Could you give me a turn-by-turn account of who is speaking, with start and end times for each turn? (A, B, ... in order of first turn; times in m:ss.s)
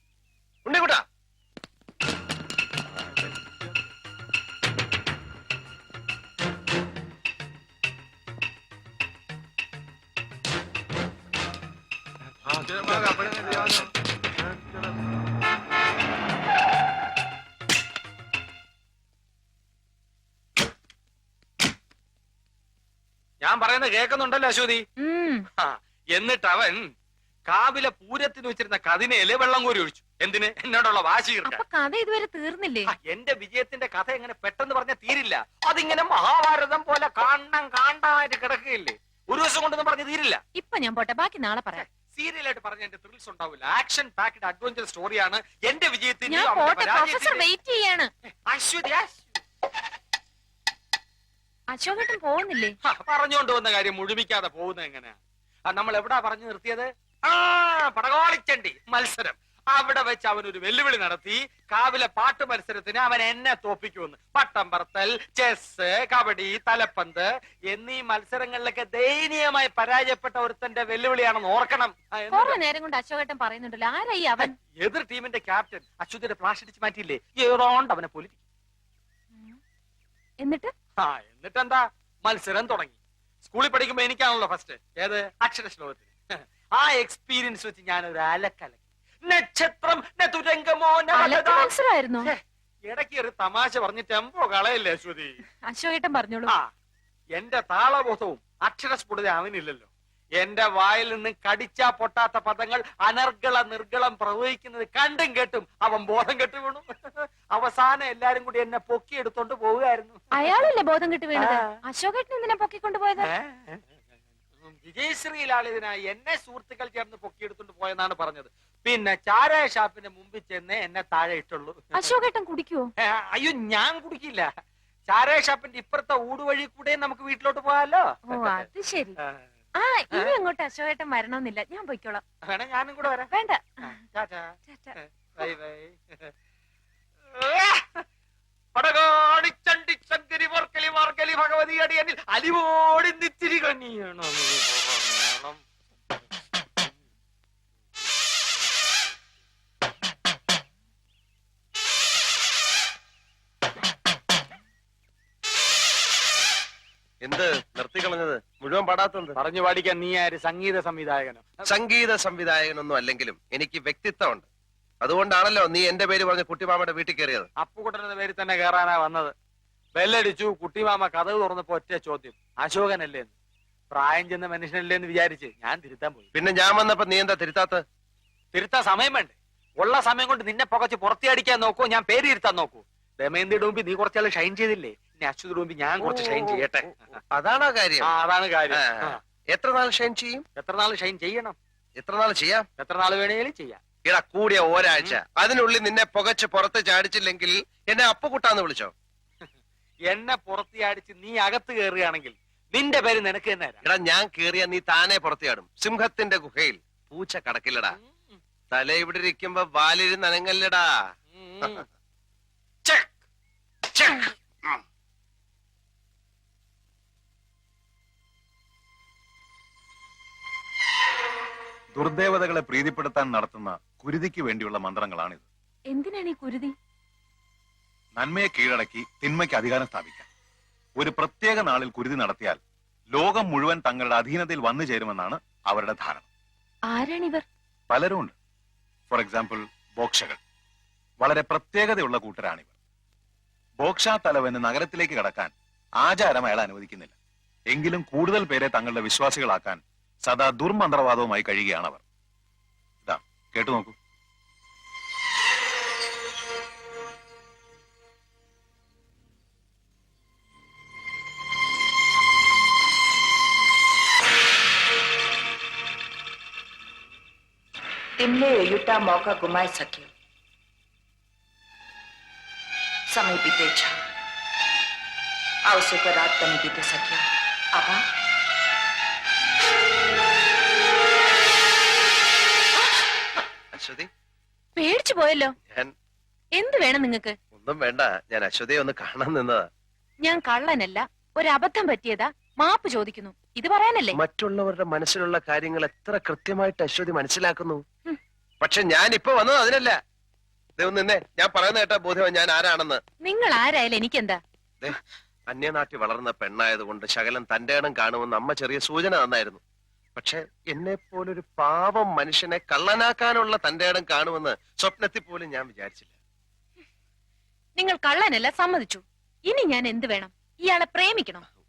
0:00.6-0:01.0 A
0:23.4-0:24.8 B
0:25.0-0:25.4 C
0:25.6-0:26.9 B
0:27.5-0:31.6 B
0:31.4-0:32.9 C
0:32.9-0:40.4 B
0:40.5-0:41.8 C
0:41.8-0:47.4 B
0:46.3-0:48.1 C
0:48.5-0:49.3 B
0:51.7-0:52.8 C
0:52.8-1:12.6 B
1:12.3-1:14.5 C
1:14.4-1:18.4 B
1:20.4-1:20.7 C
1:21.0-1:31.7 B
1:31.1-1:32.3 C
1:32.2-1:35.4 B
1:35.7-1:36.5 C
1:37.4-1:50.2 B
1:50.3-1:53.3 C
1:53.2-1:53.8 B
1:54.6-2:01.9 B
2:01.9-2:02.9 C
2:03.0-2:04.5 B
2:05.1-2:08.7 B
2:08.3-2:09.2 C
2:09.2-2:09.4 B
2:09.7-2:12.2 C
2:12.4-2:13.3 B
2:13.3-2:14.0 C
2:13.8-2:16.3 B
2:14.7-2:14.9 C
2:17.3-2:18.0 B
2:18.7-2:25.6 B
2:37.2-2:39.4 A
2:39.3-2:41.7 B
2:41.7-2:44.5 A
2:45.0-2:47.5 A
2:47.6-2:49.3 B
2:49.9-2:53.3 B
2:53.9-2:56.3 B
2:56.3-2:57.8 A
2:58.5-3:07.0 B
3:06.0-3:08.1 A
3:08.0-3:09.2 B
3:08.7-3:10.4 A
3:10.6-3:11.6 B
3:12.0-3:12.7 A
3:12.8-3:13.8 B
3:14.0-3:18.9 A
3:14.9-3:15.2 B
3:20.1-3:23.8 B
3:23.8-3:28.0 A
3:27.9-3:28.4 B
3:28.7-3:30.8 A
3:31.3-3:31.8 B
3:32.8-3:33.1 B
3:34.0-3:34.2 A
3:41.9-3:45.5 D
3:45.9-3:46.7 C
3:48.2-3:50.3 D
3:51.0-3:52.6 D
3:53.1-3:56.3 D
3:56.9-3:57.4 C
3:57.9-3:58.3 D
3:59.1-4:00.4 D
4:01.2-4:02.7 D
4:03.8-4:07.1 D
4:07.7-4:12.0 D
4:13.0-4:14.0 D
4:28.2-4:30.1 E
4:33.1-4:33.9 E
4:35.7-4:37.2 E
4:43.7-4:44.1 A
4:44.8-4:45.5 C
4:46.6-4:47.4 C
4:47.5-4:49.7 A
4:50.2-4:54.2 C
4:54.1-4:57.8 A
4:58.6-5:00.0 A
5:00.8-5:03.0 A
5:03.2-5:04.4 C
5:05.5-5:09.6 A
5:10.2-5:16.1 A
5:17.8-5:21.4 C